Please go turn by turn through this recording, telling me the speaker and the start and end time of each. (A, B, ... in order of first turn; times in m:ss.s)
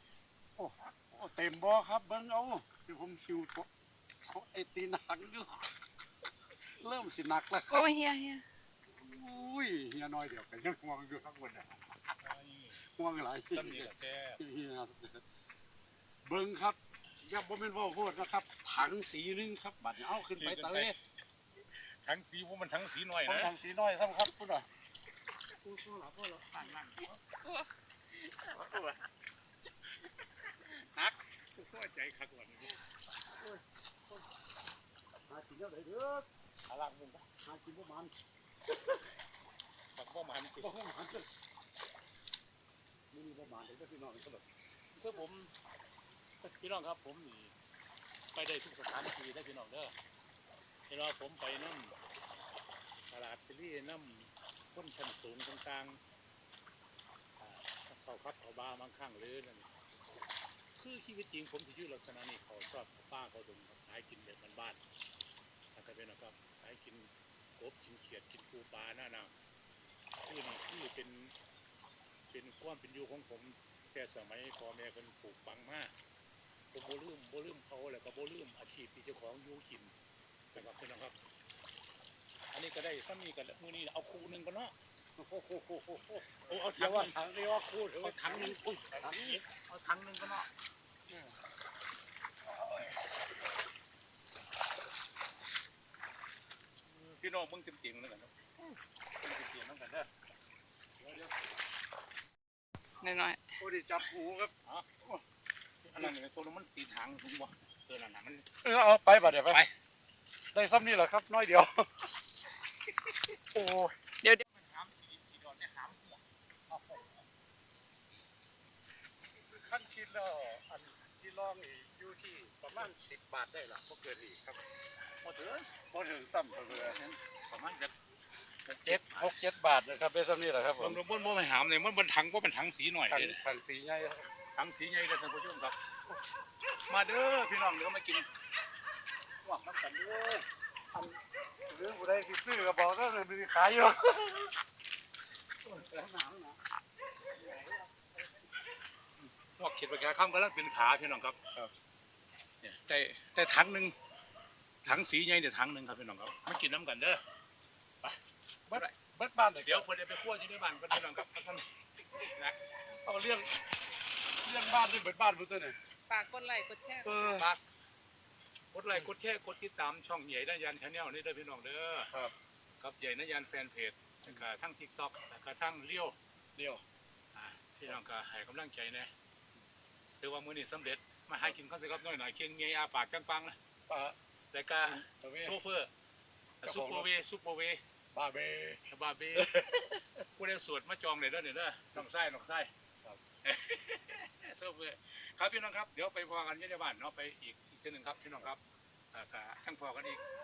0:00.6-0:03.7 A
0:04.3-0:05.7 A
0:06.8-0:07.9 A
0:07.7-0:08.4 B
0:08.9-0:12.2 A
0:12.2-0:12.8 C
0:13.0-0:15.2 A
0:13.5-0:14.4 C
0:16.3-0:21.0 A
0:20.4-0:21.0 C
0:21.8-0:23.5 C
0:23.3-0:24.7 A
0:25.6-0:26.6 A
0:26.5-0:27.2 C
0:28.5-0:29.0 C
0:30.7-0:32.8 C
0:33.4-0:34.2 A
0:35.3-0:36.3 A
0:36.7-0:37.3 C
0:37.4-0:38.1 A
0:39.9-0:40.7 C
0:40.6-0:41.3 A
0:43.1-0:44.5 A
0:45.0-0:45.5 C
0:46.4-0:47.5 C
0:48.3-0:50.0 C
0:50.9-0:52.0 C
0:53.1-0:56.0 C
0:57.4-0:59.8 C
1:00.8-1:04.8 C
1:05.8-1:09.4 C
1:10.2-1:11.4 C
1:12.3-1:15.9 C
1:16.7-1:20.0 C
1:20.5-1:21.2 C
1:22.5-1:24.8 C
1:25.2-1:29.4 A
1:26.4-1:27.1 C
1:28.0-1:30.5 C
1:31.1-1:31.3 A
1:36.9-1:38.3 C
1:39.2-1:40.1 C
1:41.0-1:41.3 A
1:43.0-1:43.4 B
1:43.6-1:45.2 A
1:45.9-1:48.5 C
1:48.6-1:49.6 A
1:49.2-1:49.7 C
1:50.5-1:52.1 A
1:54.4-1:56.2 C
1:56.7-1:57.1 A
1:59.3-2:04.6 A
2:05.2-2:05.7 C
2:05.8-2:07.0 A
2:06.7-2:08.0 C
2:08.7-2:09.3 C
2:08.8-2:11.0 A
2:10.8-2:13.4 C
2:13.1-2:14.3 A
2:14.6-2:15.8 C
2:16.9-2:18.3 C
2:19.4-2:24.5 A
2:25.7-2:26.6 A
2:27.4-2:28.0 A
2:29.2-2:31.4 C
2:32.6-2:34.0 C
2:34.8-2:37.2 C
2:38.7-2:39.9 A
2:39.6-2:42.6 C
2:41.0-2:41.2 A
2:43.0-2:43.5 A
2:44.4-2:45.8 A
2:46.1-2:47.4 B
2:47.0-2:47.5 A
2:47.3-2:47.6 C
2:48.7-2:52.1 C
2:52.8-2:56.2 C
2:56.6-2:56.8 A
2:57.3-2:59.1 C
3:00.2-3:03.6 C
3:03.9-3:04.2 A
3:04.5-3:05.9 C
3:05.0-3:05.6 A
3:06.6-3:07.1 A
3:06.6-3:07.8 C
3:08.1-3:08.8 A
3:08.9-3:09.5 C
3:09.4-3:10.0 A
3:10.4-3:12.7 C
3:13.4-3:18.6 C
3:19.1-3:20.2 C